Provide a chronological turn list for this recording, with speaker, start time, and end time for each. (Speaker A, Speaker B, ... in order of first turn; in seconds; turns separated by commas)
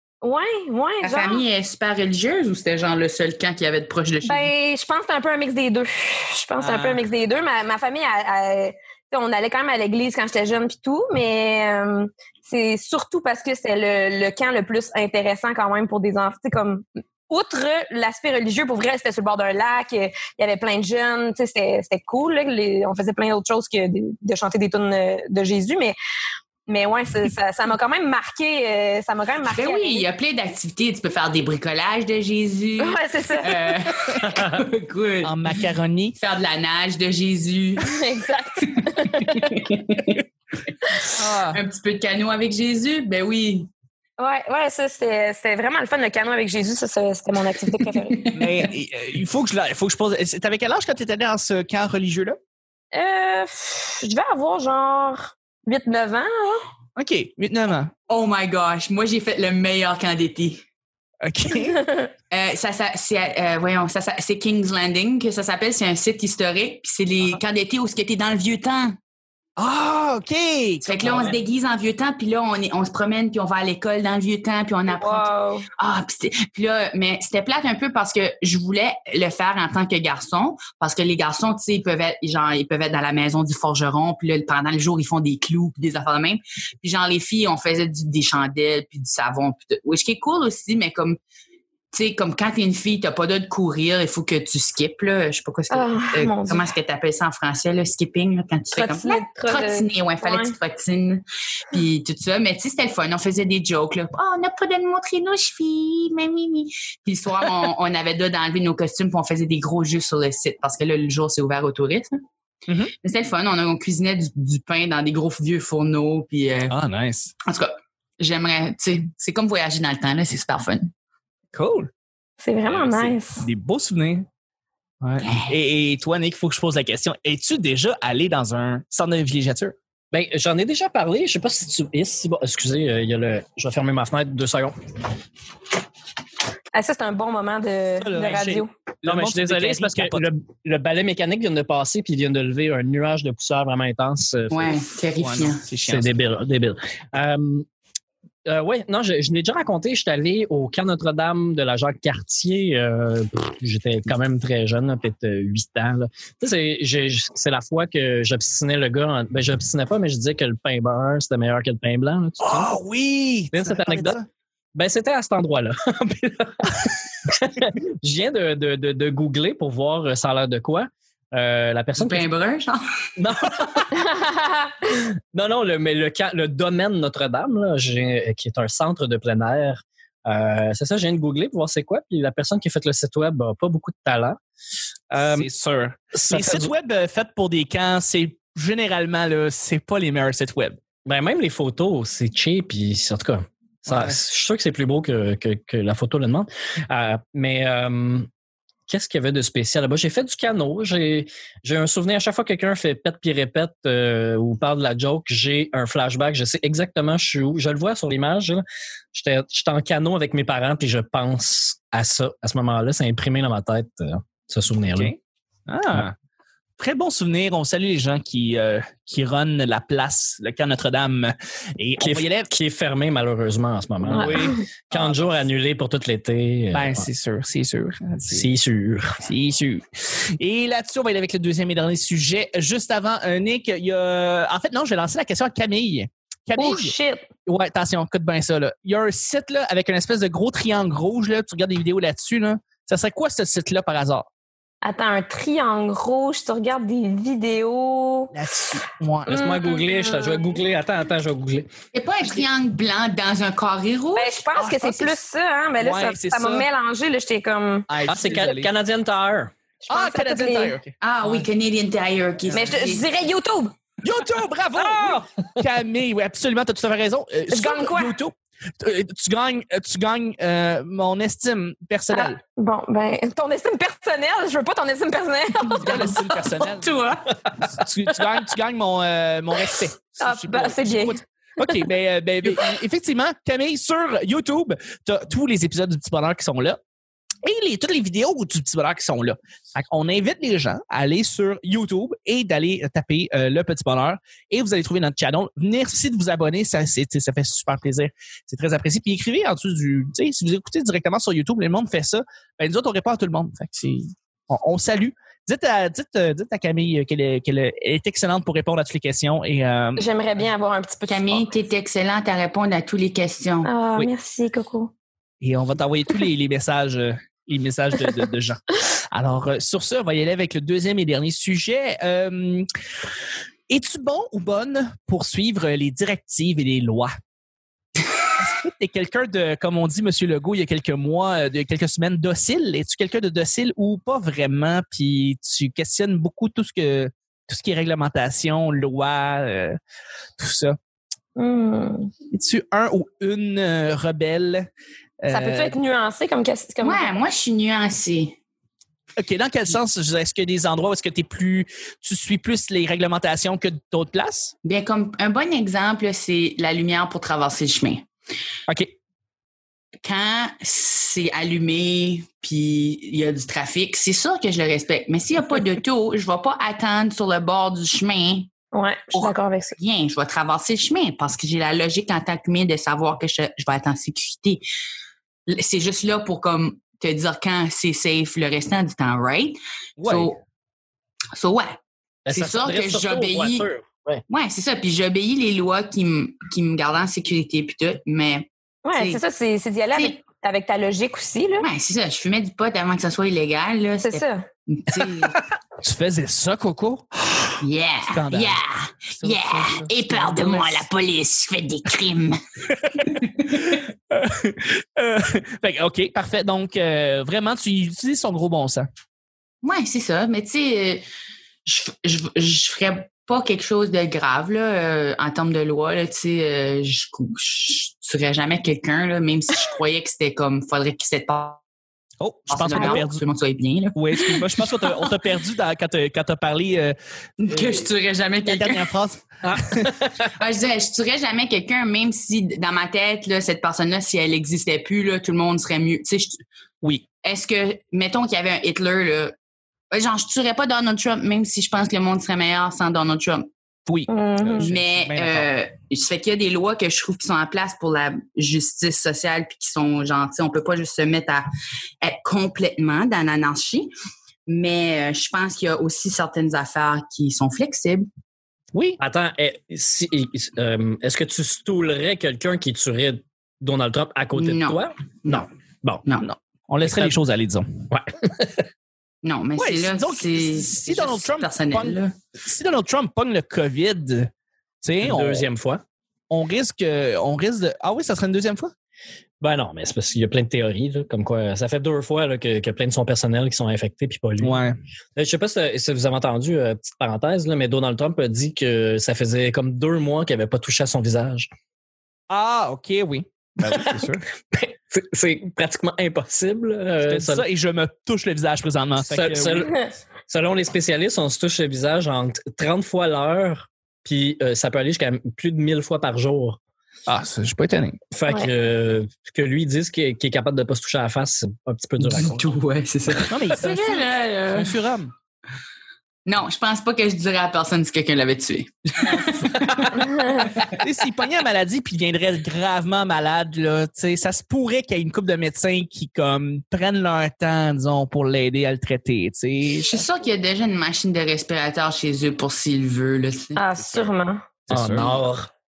Speaker A: 0.2-1.4, Speaker B: 1.0-4.5, Speaker A: 4.3-26.0, Speaker C: 6.6-7.0, Speaker A: 26.7-30.1, Speaker B: 29.5-35.6, Speaker A: 32.8-33.7, Speaker D: 34.2-34.6, Speaker C: 35.2-36.2, Speaker B: 36.2-38.0, Speaker A: 37.8-39.6, Speaker B: 38.7-40.2, Speaker B: 41.0-43.7, Speaker C: 41.1-41.6, Speaker A: 44.2-48.2, Speaker B: 47.9-48.7, Speaker C: 48.4-52.4, Speaker A: 52.9-56.6, Speaker C: 57.0-57.9, Speaker B: 58.1-60.6, Speaker C: 61.2-61.8, Speaker A: 61.7-62.1, Speaker B: 62.3-69.0, Speaker C: 69.6-71.3, Speaker B: 70.8-91.2, Speaker A: 74.9-75.7, Speaker B: 91.9-112.1, Speaker A: 95.7-96.7, Speaker A: 98.7-100.5, Speaker B: 113.0-116.7, Speaker C: 116.7-117.3, Speaker B: 117.5-120.9, Speaker C: 121.5-121.9, Speaker A: 122.4-123.5, Speaker C: 122.8-124.3, Speaker C: 125.0-129.8, Speaker B: 125.2-125.5, Speaker D: 130.1-134.8, Speaker A: 136.7-138.7, Speaker C: 138.0-140.2, Speaker D: 138.3-144.8, Speaker B: 144.5-145.6, Speaker C: 145.2-146.2, Speaker D: 145.9-147.7, Speaker D: 148.5-162.7, Speaker C: 162.4-164.2, Speaker D: 163.5-164.2, Speaker D: 164.8-172.3, Speaker B: 172.0-172.8, Speaker D: 173.2-174.1, Speaker A: 173.9-174.7, Speaker D: 175.3-184.4, Speaker C: 185.1-190.8, Speaker D: 185.1-185.5, Speaker D: 186.1-186.7, Speaker D: 191.1-198.3, Speaker C: 193.9-194.2, Speaker D: 198.9-208.6, Speaker D: 209.1-215.1, Speaker C: 214.9-216.1, Speaker C: 216.8-222.5, Speaker D: 222.0-227.1, Speaker C: 224.0-225.4, Speaker A: 224.1-224.6, Speaker C: 226.7-228.5, Speaker D: 228.3-229.2, Speaker C: 229.2-236.9, Speaker A: 236.6-237.3, Speaker C: 237.5-244.3, Speaker A: 244.8-248.3, Speaker C: 248.3-249.3, Speaker A: 249.3-250.6, Speaker D: 249.3-251.7, Speaker B: 251.9-254.4, Speaker A: 254.2-257.9, Speaker C: 254.6-255.2, Speaker C: 255.8-256.7, Speaker C: 257.9-258.7, Speaker D: 258.1-259.5, Speaker A: 259.9-260.8, Speaker C: 259.9-261.4, Speaker B: 261.0-263.1, Speaker A: 262.5-263.7, Speaker C: 264.0-272.4, Speaker D: 264.8-265.2, Speaker A: 267.5-268.2, Speaker A: 272.1-276.3, Speaker C: 275.7-276.9, Speaker B: 276.7-277.4, Speaker C: 277.6-286.8, Speaker A: 280.2-281.8, Speaker C: 287.4-310.1, Speaker A: 310.0-311.5, Speaker B: 311.1-313.7, Speaker A: 313.6-314.9, Speaker C: 315.4-322.7, Speaker C: 323.7-327.1, Speaker C: 328.4-339.8, Speaker C: 340.4-340.8, Speaker A: 341.4-342.1, Speaker C: 342.3-344.7, Speaker C: 345.2-345.7, Speaker A: 345.3-347.2, Speaker B: 346.8-348.4, Speaker C: 349.2-354.5, Speaker B: 354.6-358.1, Speaker C: 358.7-358.9, Speaker B: 360.0-368.5, Speaker A: 368.7-369.8, Speaker B: 369.1-374.6, Speaker B: 375.5-380.4, Speaker C: 380.0-380.4, Speaker B: 381.3-381.8, Speaker D: 382.3-384.2, Speaker B: 382.3-383.7, Speaker B: 384.3-389.2, Speaker A: 388.9-391.7, Speaker B: 391.6-395.4, Speaker A: 394.0-394.5, Speaker C: 395.8-398.6, Speaker B: 397.6-402.4, Speaker C: 399.1-400.8, Speaker C: 402.9-408.9, Speaker B: 403.0-403.6, Speaker B: 409.6-411.1, Speaker B: 411.6-421.6, Speaker C: 422.2-423.2, Speaker B: 422.5-425.1, Speaker A: 422.8-423.0, Speaker C: 423.9-426.9, Speaker B: 427.4-428.9, Speaker C: 427.5-427.8, Speaker C: 428.4-430.0, Speaker D: 429.4-430.3, Speaker B: 430.4-436.4, Speaker B: 437.2-439.4, Speaker B: 439.9-443.5, Speaker C: 443.9-445.5, Speaker A: 444.1-444.7, Speaker B: 444.6-451.5, Speaker B: 452.0-453.9, Speaker B: 454.5-458.1, Speaker C: 458.7-459.0, Speaker D: 459.0-466.0, Speaker B: 464.4-465.5, Speaker C: 466.2-467.9, Speaker D: 466.8-467.1, Speaker D: 467.9-468.6, Speaker B: 469.2-472.2, Speaker C: 469.6-474.3, Speaker C: 474.8-475.5, Speaker D: 475.0-475.8, Speaker C: 476.3-478.7, Speaker D: 479.4-484.6, Speaker C: 484.4-484.8, Speaker D: 485.2-491.5, Speaker C: 492.3-494.2, Speaker D: 493.7-497.4, Speaker C: 497.0-499.7, Speaker D: 499.0-506.6, Speaker C: 507.1-508.0, Speaker D: 508.1-512.5, Speaker B: 512.0-514.8, Speaker C: 513.3-515.1, Speaker B: 516.3-520.8, Speaker C: 519.0-519.5, Speaker C: 520.5-530.0, Speaker B: 529.8-533.6, Speaker A: 533.6-534.5, Speaker C: 534.7-535.1, Speaker D: 534.7-535.5